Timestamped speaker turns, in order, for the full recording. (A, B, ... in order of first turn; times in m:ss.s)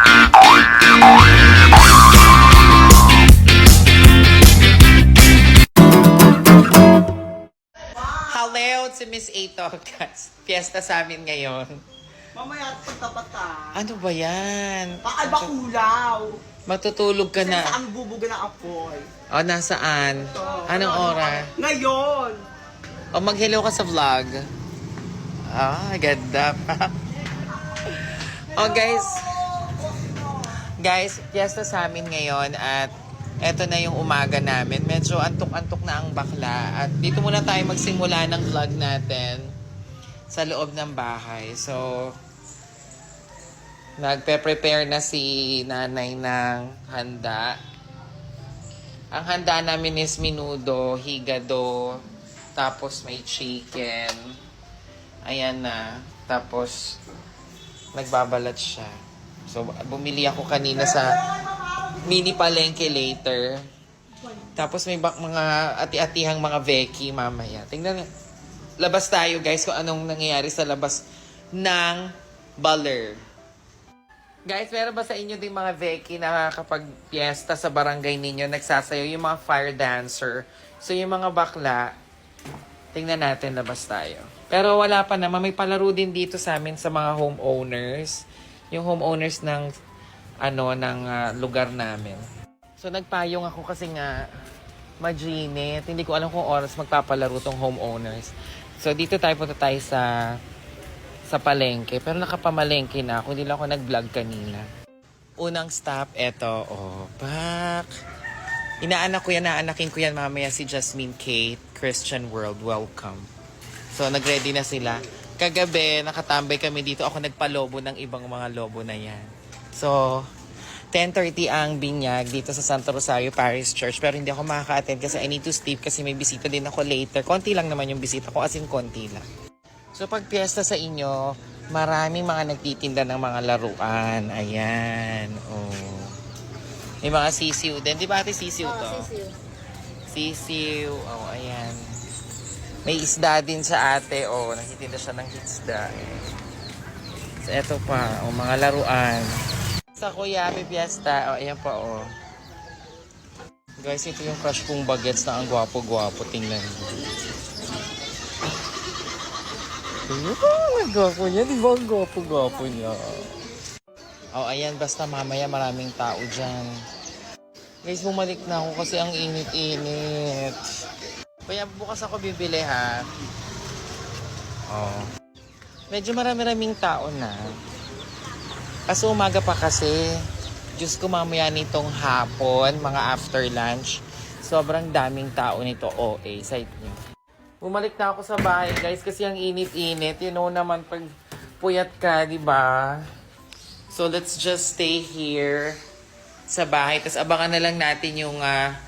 0:08.1-0:11.8 A
0:12.3-0:13.8 B
0:13.7-0:15.5 A
0:15.0-0:16.4 B
0:16.7-0:17.8 A
0:17.4-0:19.1 B
0:19.3-0:21.5 A
0:20.4-0:22.4 B
0:23.1-0:24.4 A
0:25.5-0:26.9 A
0:27.7-0:29.6 A
0:29.3-0:30.2 B
0:30.8-0:39.5 A
0:40.3-0:42.1 A
0:44.0-0:47.6 A
0:49.1-0:52.0 A
0:52.6-0:54.3 A
0:55.2-0:56.9 A
0:57.9-0:58.9 A
0:59.5-1:01.2 A
1:01.9-1:03.6 A
1:04.6-1:08.1 A
1:08.8-1:11.0 A
1:11.6-1:12.1 A
1:12.6-1:13.2 A
1:14.5-1:21.9 A
1:22.9-1:29.7 A
1:30.4-1:32.2 A
1:32.8-1:34.2 A
1:35.0-1:40.1 A
1:41.3-1:44.7 A
1:45.4-1:47.9 A
1:48.8-1:53.3 A
1:53.9-2:00.3 A
2:00.9-2:09.3 A
2:10.0-2:16.2 A
2:17.0-2:19.1 A
2:20.1-2:21.8 A
2:22.8-2:26.2 A
2:27.4-2:29.4 A
2:30.0-2:32.1 A
2:33.8-2:37.1 A
2:40.1-2:43.4 A
2:44.3-2:46.7 A
2:47.8-2:50.6 A
2:51.5-2:53.0 A
2:54.7-2:55.1 A
2:55.9-2:57.4 A
2:58.9-3:00.0 A
3:00.8-3:07.0 A
3:07.6-3:11.1 A
3:11.6-3:13.0 A
3:13.9-3:15.8 A
3:16.5-3:18.6 A